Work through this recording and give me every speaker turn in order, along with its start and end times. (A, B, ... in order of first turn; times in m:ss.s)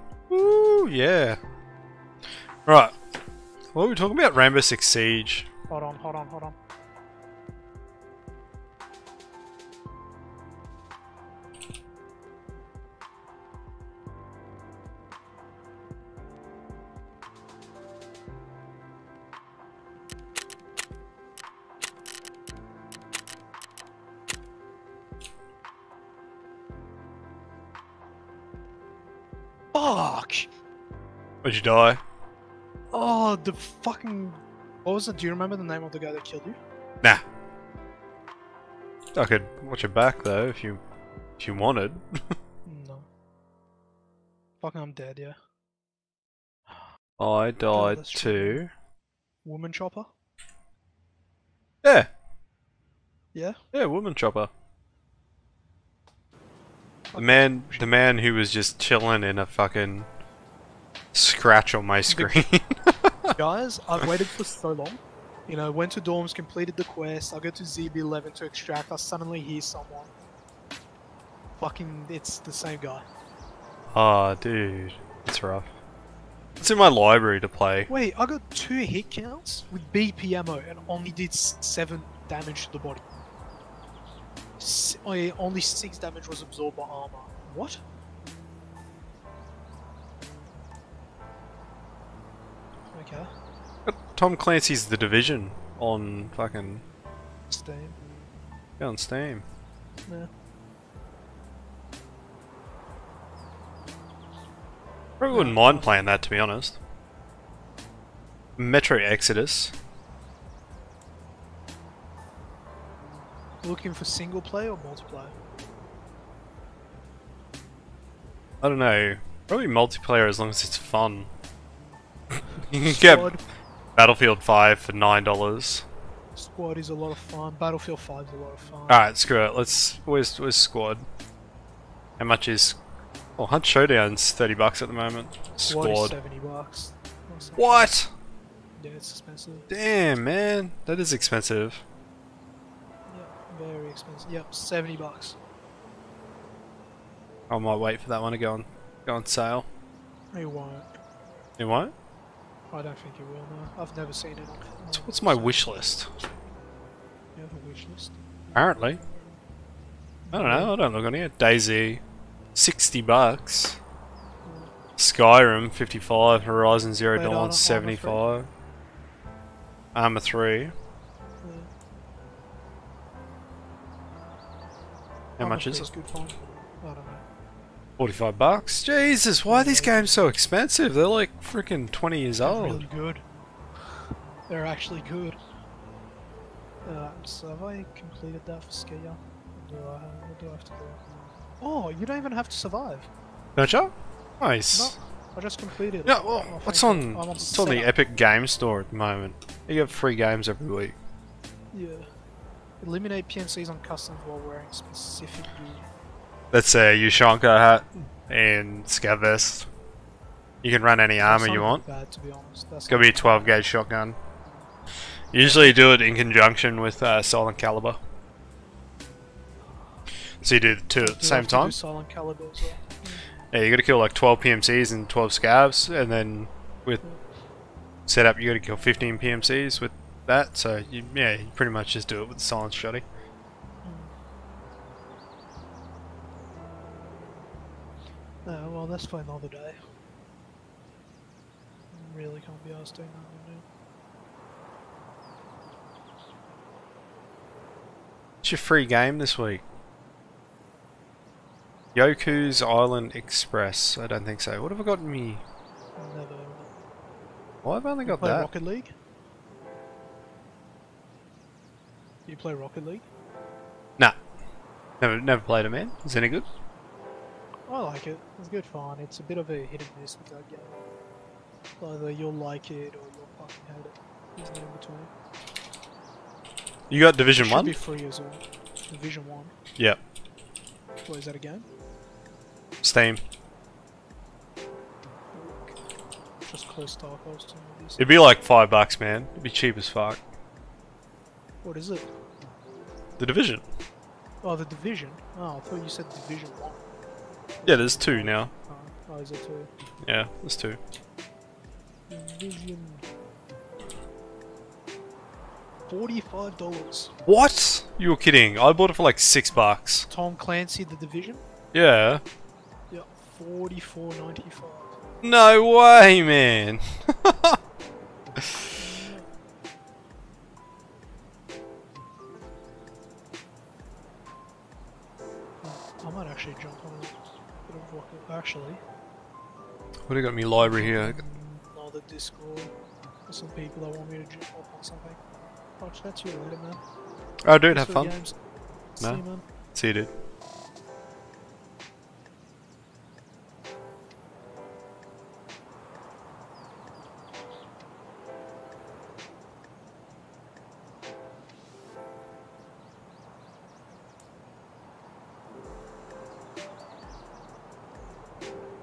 0:00.3-0:01.4 A
0:02.6-0:03.0 A
0:03.7-0:05.5 A
0:05.7-0:06.5 B
0:29.7-0:30.5 B
0:31.4-0:32.0 A
0:32.9-0:36.6 B
0:39.1-0:40.8 A
0:41.4-0:42.3 A
0:42.6-0:43.1 B
0:44.6-0:45.4 B
0:47.2-0:48.7 A
0:47.7-0:48.6 B
0:49.4-0:50.1 B
0:51.8-0:52.1 A
0:53.3-0:53.6 B
0:53.7-0:54.5 A
0:57.1-0:57.9 B
0:57.2-1:00.1 A
1:01.1-1:03.3 A
1:02.1-1:02.4 B
1:03.3-1:10.1 B
1:11.6-1:13.0 B
1:13.9-1:15.7 A
1:16.6-1:17.9 A
1:17.9-1:23.0 B
1:24.6-1:27.8 B
1:32.9-1:33.3 B
1:33.8-1:36.8 A
1:37.5-1:38.0 B
1:38.8-1:39.4 A
1:45.2-1:46.8 A
1:45.3-1:46.0 B
1:48.6-1:49.7 A
1:53.6-1:55.4 B
1:58.6-2:01.3 A
2:02.6-2:03.3 A
2:02.8-2:03.4 B
2:04.0-2:05.8 A
2:06.4-2:09.0 B
2:08.9-2:11.0 A
2:12.2-2:12.8 A
2:13.4-2:16.2 A
2:15.6-2:17.9 B
2:17.6-2:18.1 A
2:18.8-2:19.7 B
2:19.7-2:21.8 A
2:23.1-2:25.4 B
2:27.5-2:29.7 A
2:30.3-2:30.9 B
2:31.6-2:31.9 A
2:32.7-2:35.7 B
2:34.9-2:36.1 A
2:37.3-2:38.2 B
2:38.5-2:39.0 A
2:40.2-2:40.7 B
2:40.3-2:42.0 A
2:42.5-2:43.8 A
2:44.4-2:44.7 B
2:45.0-2:48.5 A
2:47.1-2:48.4 B
2:49.9-2:50.7 A
2:51.4-2:51.7 B
2:55.4-2:57.2 B
2:55.4-2:55.9 A
2:58.0-3:02.8 A
2:59.4-3:00.3 B
3:02.4-3:03.2 B
3:04.5-3:05.4 B
3:06.8-3:11.0 B
3:11.6-3:13.1 B
3:13.6-3:14.9 A
3:14.7-3:17.9 B
3:16.0-3:21.0 A
3:21.7-3:22.0 B
3:22.8-3:25.9 B
3:26.5-3:29.7 A
3:30.6-3:31.8 A
3:31.2-3:33.6 B
3:32.9-3:34.2 A
3:35.3-3:38.0 A
3:35.4-3:35.7 B
3:40.4-3:41.8 A
3:41.0-3:43.2 B
3:43.5-3:47.0 A
3:48.1-3:53.0 A
3:53.8-3:54.1 B
3:58.4-3:59.8 B
4:01.9-4:03.6 B
4:08.4-4:09.6 A
4:11.9-4:15.4 A
4:16.0-4:16.7 B
4:17.6-4:18.5 A
4:18.0-4:18.9 B
4:22.3-4:23.1 B
4:25.0-4:26.5 A
4:27.7-4:30.8 B
4:31.8-4:35.1 B
4:36.9-4:37.8 A
4:37.4-4:39.5 B
4:41.0-4:41.6 B
4:42.8-4:43.2 A
4:45.3-4:45.8 B
4:46.4-4:48.0 B
4:48.0-4:50.2 A
4:51.6-4:52.1 B
4:53.2-4:53.6 A
4:54.4-4:56.8 B
4:57.6-4:59.7 B
4:57.6-4:58.5 A
5:00.0-5:00.8 A
5:02.1-5:03.0 B
5:05.9-5:07.1 B
5:07.2-5:10.1 A
5:10.1-5:11.4 B
5:11.7-5:12.2 A
5:12.9-5:15.0 B
5:15.2-5:17.6 A
5:18.8-5:19.3 B
5:25.6-5:28.8 B
5:30.1-5:31.2 A
5:30.6-5:32.7 B
5:33.3-5:35.2 B
5:35.8-5:36.8 B
5:37.4-5:38.1 A
5:37.7-5:38.4 B
5:39.0-5:39.4 B
5:39.7-5:40.1 A